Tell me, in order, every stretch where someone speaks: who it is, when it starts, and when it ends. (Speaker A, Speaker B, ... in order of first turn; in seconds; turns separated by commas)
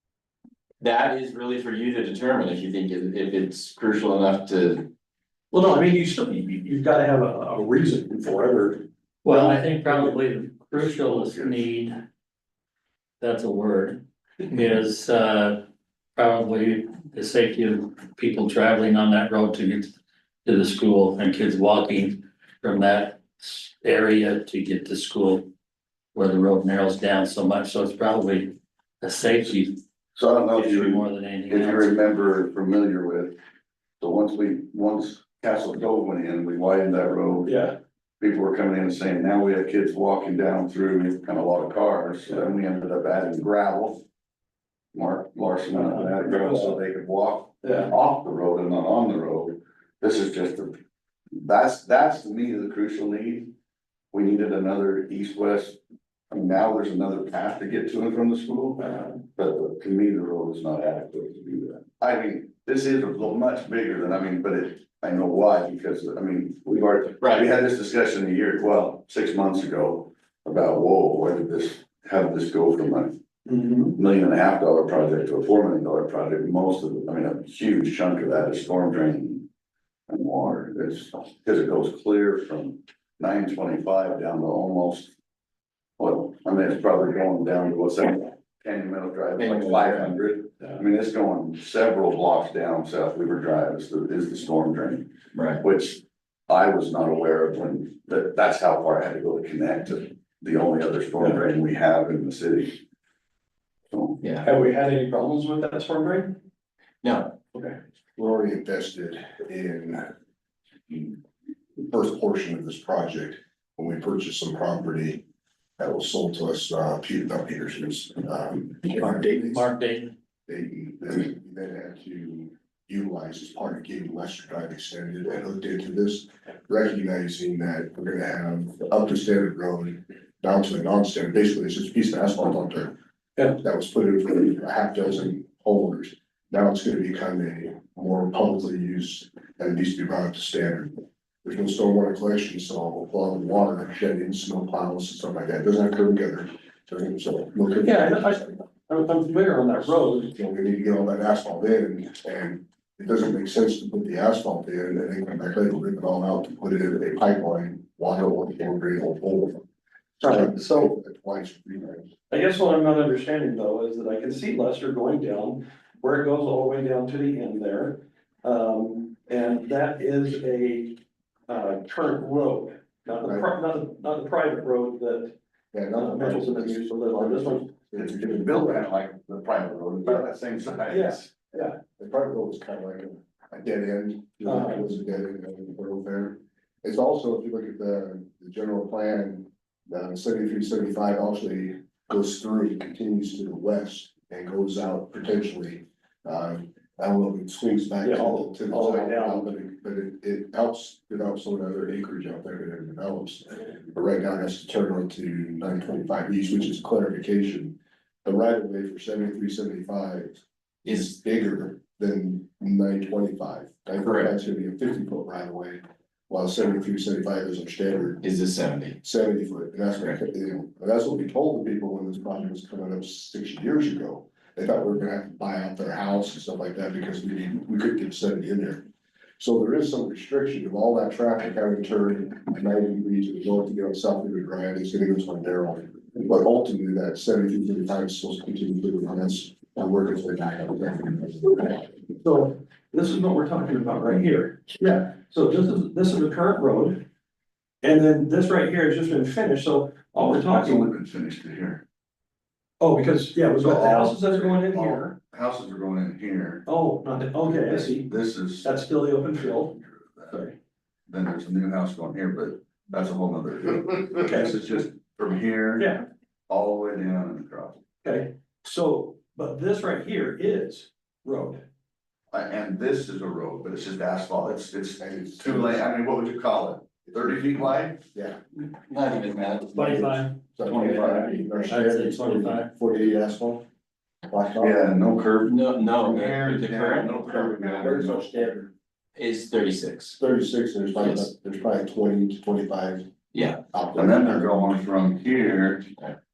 Speaker A: 0.8-4.9, Speaker B: 5.5-10.2, Speaker C: 9.2-12.0, Speaker D: 10.9-11.5, Speaker C: 13.2-15.6, Speaker C: 16.2-19.9, Speaker C: 20.4-25.5, Speaker C: 26.1-29.8, Speaker D: 30.1-33.3, Speaker C: 30.5-31.9, Speaker D: 34.0-37.5, Speaker B: 37.5-37.8, Speaker D: 38.2-44.0, Speaker D: 44.9-50.7, Speaker B: 45.7-46.8, Speaker B: 47.6-47.9, Speaker D: 51.3-53.5, Speaker D: 54.1-55.8, Speaker D: 56.3-73.1, Speaker B: 58.8-59.1, Speaker A: 67.2-67.5, Speaker B: 73.5-74.0, Speaker D: 74.0-79.4, Speaker D: 80.1-85.1, Speaker D: 86.0-95.1, Speaker A: 89.4-90.2, Speaker A: 95.3-95.6, Speaker D: 95.6-102.8, Speaker A: 104.2-104.5, Speaker B: 104.4-106.3, Speaker A: 107.0-107.3, Speaker E: 108.2-110.1, Speaker E: 111.8-115.2, Speaker E: 115.8-119.7, Speaker C: 118.9-120.1, Speaker E: 120.5-132.9, Speaker E: 133.6-148.3, Speaker B: 147.8-150.3, Speaker E: 150.3-159.6, Speaker E: 160.2-162.1, Speaker B: 160.2-160.9, Speaker B: 162.3-175.3, Speaker E: 175.7-178.8, Speaker B: 175.9-177.7, Speaker D: 178.0-181.3, Speaker B: 180.9-181.8, Speaker E: 182.0-218.2, Speaker B: 184.4-184.9, Speaker B: 198.0-199.5, Speaker A: 210.8-211.1, Speaker A: 214.0-214.3, Speaker A: 218.2-219.0, Speaker E: 219.0-228.8, Speaker A: 219.9-220.2, Speaker E: 229.4-241.9, Speaker B: 242.2-247.0, Speaker B: 247.8-250.9, Speaker D: 250.5-251.8, Speaker B: 252.8-255.2, Speaker D: 253.6-256.6, Speaker B: 256.7-258.1, Speaker D: 257.6-258.7, Speaker B: 258.6-259.8, Speaker D: 259.7-260.4, Speaker D: 261.1-265.9, Speaker B: 264.2-264.6, Speaker B: 265.8-266.0, Speaker D: 266.5-267.8, Speaker B: 268.0-271.6, Speaker D: 272.3-278.1, Speaker E: 275.0-275.9, Speaker E: 277.1-278.4, Speaker A: 278.6-280.1, Speaker C: 279.8-282.7, Speaker E: 279.8-283.6, Speaker D: 280.7-281.3, Speaker E: 284.3-284.8, Speaker D: 284.6-288.3, Speaker A: 285.4-288.1, Speaker E: 287.3-288.6, Speaker A: 289.1-290.2, Speaker E: 290.2-293.1, Speaker A: 291.0-291.3, Speaker A: 293.3-293.6, Speaker E: 293.7-294.7, Speaker D: 293.9-295.9